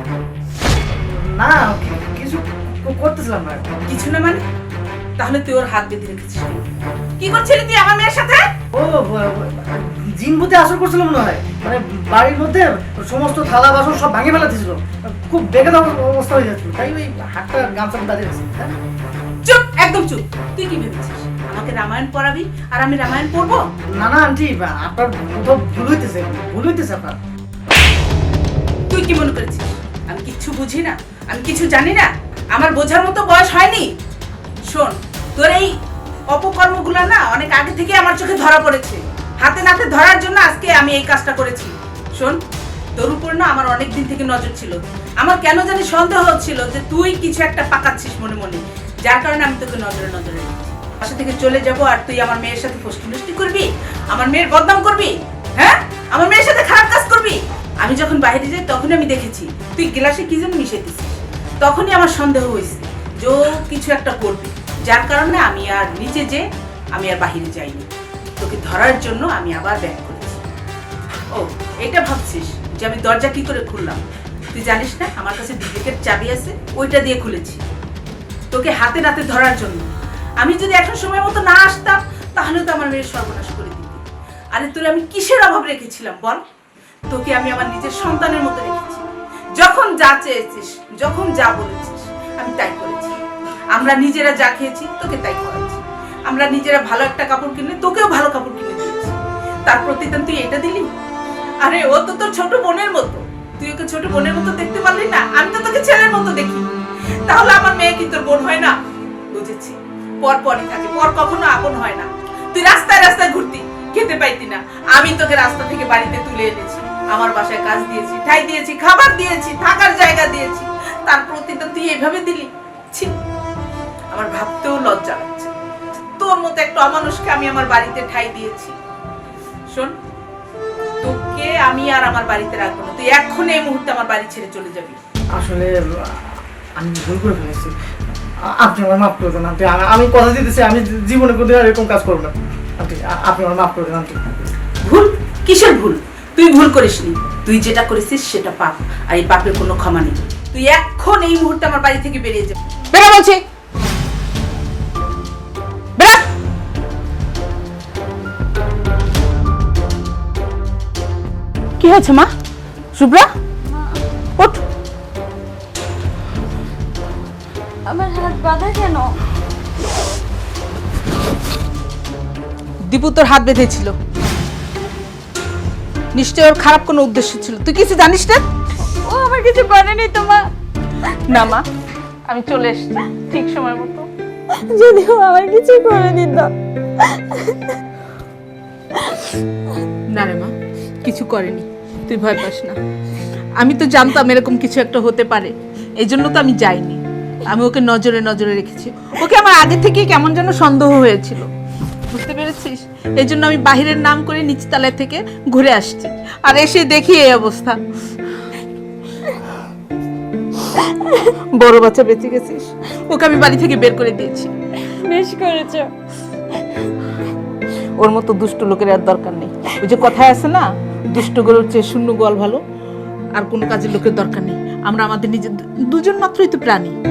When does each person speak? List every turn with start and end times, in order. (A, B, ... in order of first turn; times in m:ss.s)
0:01.1-0:03.8 A
0:03.9-0:04.4 B
0:05.2-0:06.6 B
0:07.2-0:08.5 B
0:08.7-0:18.8 A
0:19.4-0:23.6 B
0:24.0-0:27.2 A
0:28.9-0:33.9 B
0:34.7-0:35.8 B
0:36.3-0:42.4 B
0:43.0-1:10.4 B
1:11.3-1:17.6 B
1:18.5-1:19.9 B
1:20.4-1:24.0 B
1:24.5-1:26.4 B
1:27.1-1:29.0 B
1:29.6-1:33.2 B
1:33.7-1:40.9 B
1:41.6-1:46.7 B
1:47.2-1:48.8 B
1:49.3-2:03.1 B
2:04.1-2:05.5 B
2:06.2-2:08.8 B
2:09.7-2:09.9 B
2:11.0-2:15.0 B
2:15.4-2:16.3 A
2:16.8-2:17.7 A
2:18.5-2:24.5 A
2:24.8-2:33.4 B
2:36.0-2:36.2 B
2:41.8-2:42.3 B
2:42.9-2:43.3 B
2:43.7-2:44.0 C
2:47.9-2:49.1 C
2:52.8-2:53.9 B
2:56.1-2:58.4 B
2:58.9-3:00.5 C
3:01.1-3:01.7 B
3:02.3-3:04.1 B
3:04.5-3:07.8 C
3:09.0-3:09.3 C
3:10.1-3:12.8 B
3:13.6-3:21.5 B
3:22.1-3:27.8 B
3:30.6-3:34.5 B
3:34.9-3:35.9 C
3:38.0-3:42.6 B
3:43.4-3:47.0 B